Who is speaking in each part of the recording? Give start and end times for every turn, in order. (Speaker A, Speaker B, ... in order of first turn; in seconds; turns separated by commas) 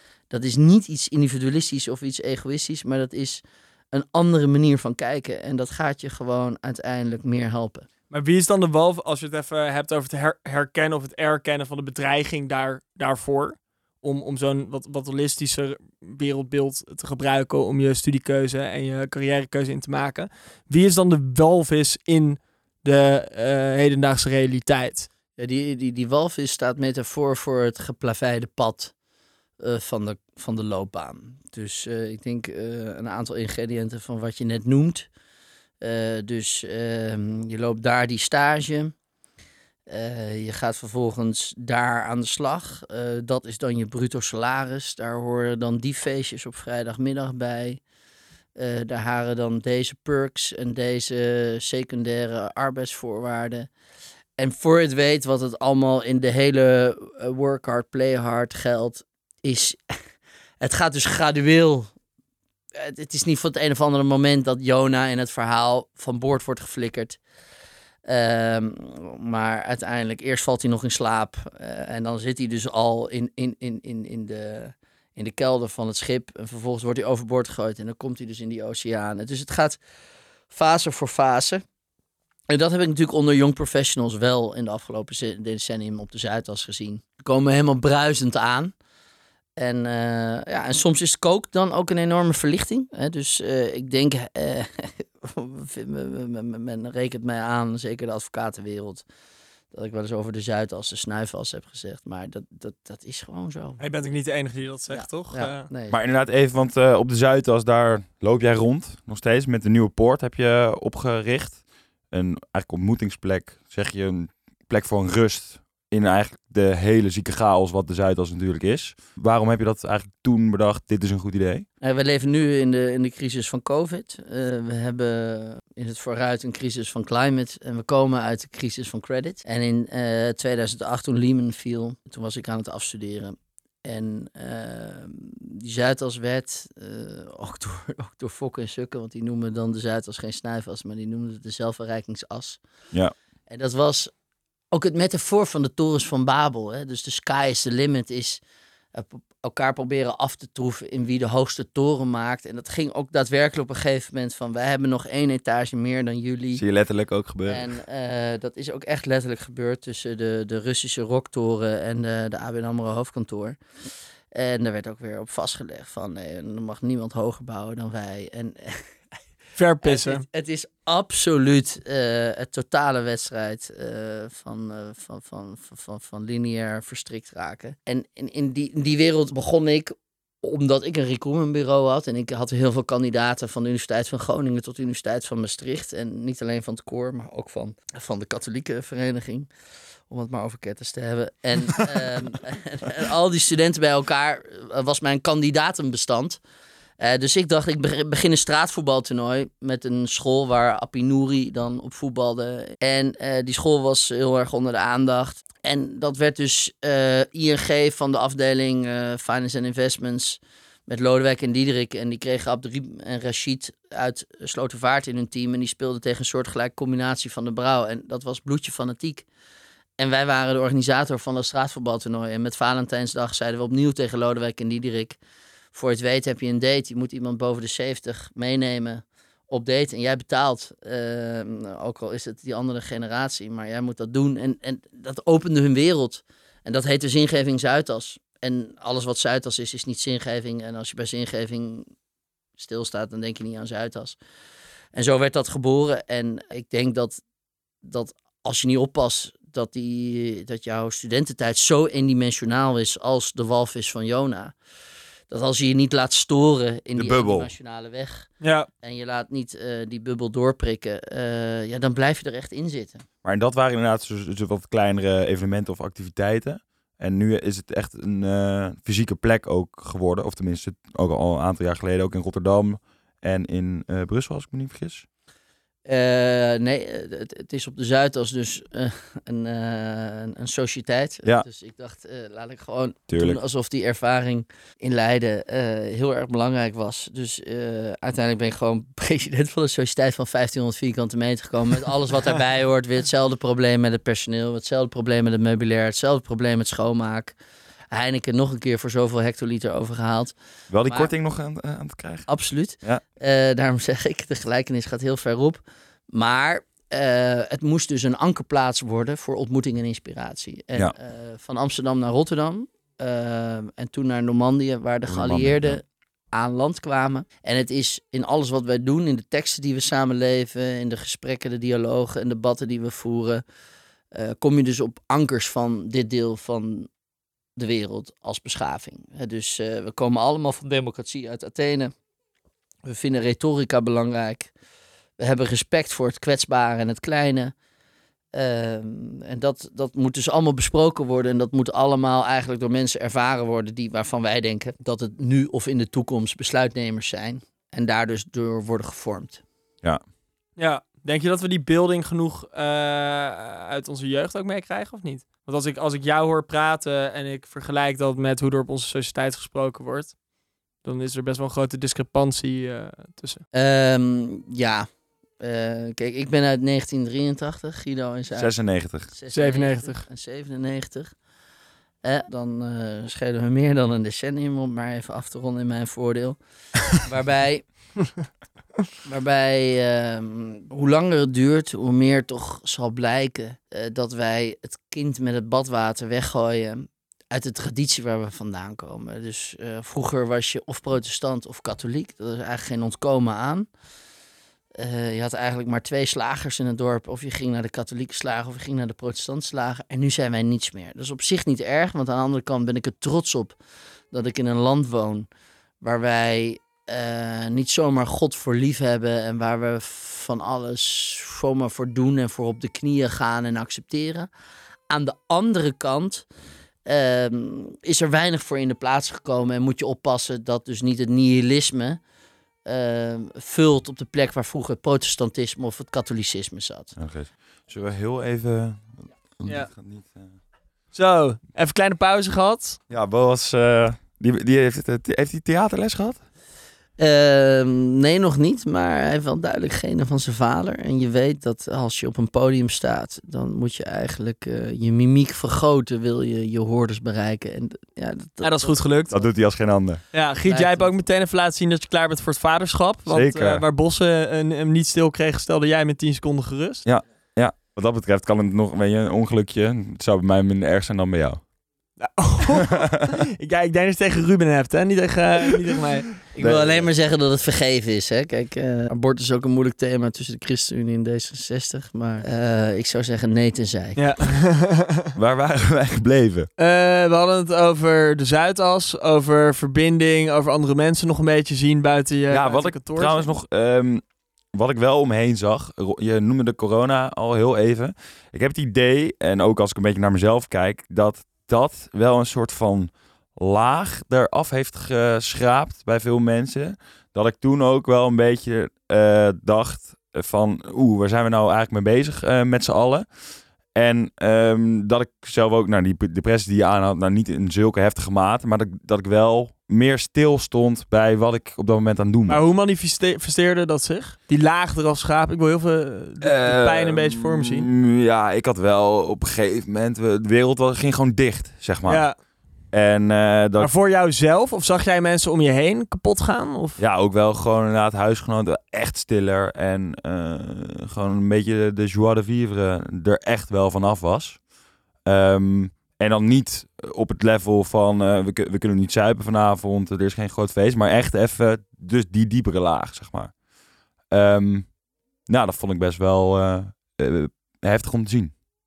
Speaker A: 0.3-7.8, Speaker B: 8.1-25.1, Speaker A: 25.4-28.9, Speaker A: 29.6-35.1, Speaker A: 35.8-38.9, Speaker A: 39.9-47.8, Speaker A: 48.5-53.7, Speaker A: 54.4-60.0, Speaker A: 60.6-61.9, Speaker A: 62.8-67.2, Speaker A: 68.0-79.8, Speaker A: 80.5-81.6, Speaker A: 82.5-88.7, Speaker A: 89.6-99.0, Speaker A: 99.7-103.8, Speaker B: 103.8-105.7, Speaker A: 104.9-106.0, Speaker C: 105.9-121.7, Speaker A: 121.8-142.6, Speaker A: 143.5-144.1, Speaker A: 144.7-148.4, Speaker A: 148.9-156.6, Speaker C: 156.5-157.7, Speaker A: 157.4-163.6, Speaker A: 164.3-168.9, Speaker B: 169.6-170.2, Speaker A: 169.8-189.5, Speaker A: 190.1-196.4, Speaker A: 197.0-219.2, Speaker A: 220.0-225.2, Speaker A: 225.7-241.9, Speaker A: 242.6-244.2, Speaker A: 244.9-247.2, Speaker A: 247.8-254.5, Speaker A: 255.3-263.0, Speaker C: 256.9-257.5, Speaker B: 258.4-258.7, Speaker C: 263.2-275.1, Speaker A: 275.9-297.3, Speaker C: 283.1-283.4, Speaker A: 297.9-300.3, Speaker C: 300.7-302.3, Speaker A: 300.8-301.1, Speaker A: 302.3-323.4, Speaker C: 315.1-315.8, Speaker A: 324.1-326.9, Speaker A: 327.6-331.9, Speaker A: 332.8-334.5, Speaker A: 335.2-337.5, Speaker A: 338.3-349.4, Speaker B: 350.6-360.2, Speaker B: 360.8-363.4, Speaker A: 363.5-364.9, Speaker A: 365.4-371.1, Speaker C: 368.3-369.1, Speaker B: 369.3-370.0, Speaker A: 372.0-376.4, Speaker A: 376.9-378.0, Speaker A: 379.0-393.6, Speaker A: 394.8-403.6, Speaker A: 404.1-405.3, Speaker A: 405.8-414.3, Speaker A: 414.9-416.2, Speaker A: 416.8-422.0, Speaker A: 422.6-426.9, Speaker C: 426.9-430.4, Speaker B: 429.4-429.7, Speaker B: 430.9-432.8, Speaker C: 432.9-436.2, Speaker A: 437.0-448.8, Speaker B: 448.4-449.2, Speaker C: 449.1-450.0, Speaker B: 450.1-456.9, Speaker A: 450.4-450.9, Speaker C: 453.1-453.6, Speaker C: 456.8-461.5, Speaker B: 462.0-466.1, Speaker A: 466.3-474.1, Speaker C: 466.4-466.9, Speaker B: 473.9-475.1, Speaker C: 475.1-476.5, Speaker B: 476.6-483.3, Speaker C: 482.3-503.1, Speaker C: 503.7-512.4, Speaker B: 512.3-517.7, Speaker C: 516.2-523.7, Speaker B: 521.9-522.2, Speaker B: 523.6-526.8, Speaker C: 526.8-534.5, Speaker C: 535.0-543.4, Speaker C: 544.1-544.7, Speaker C: 545.2-548.3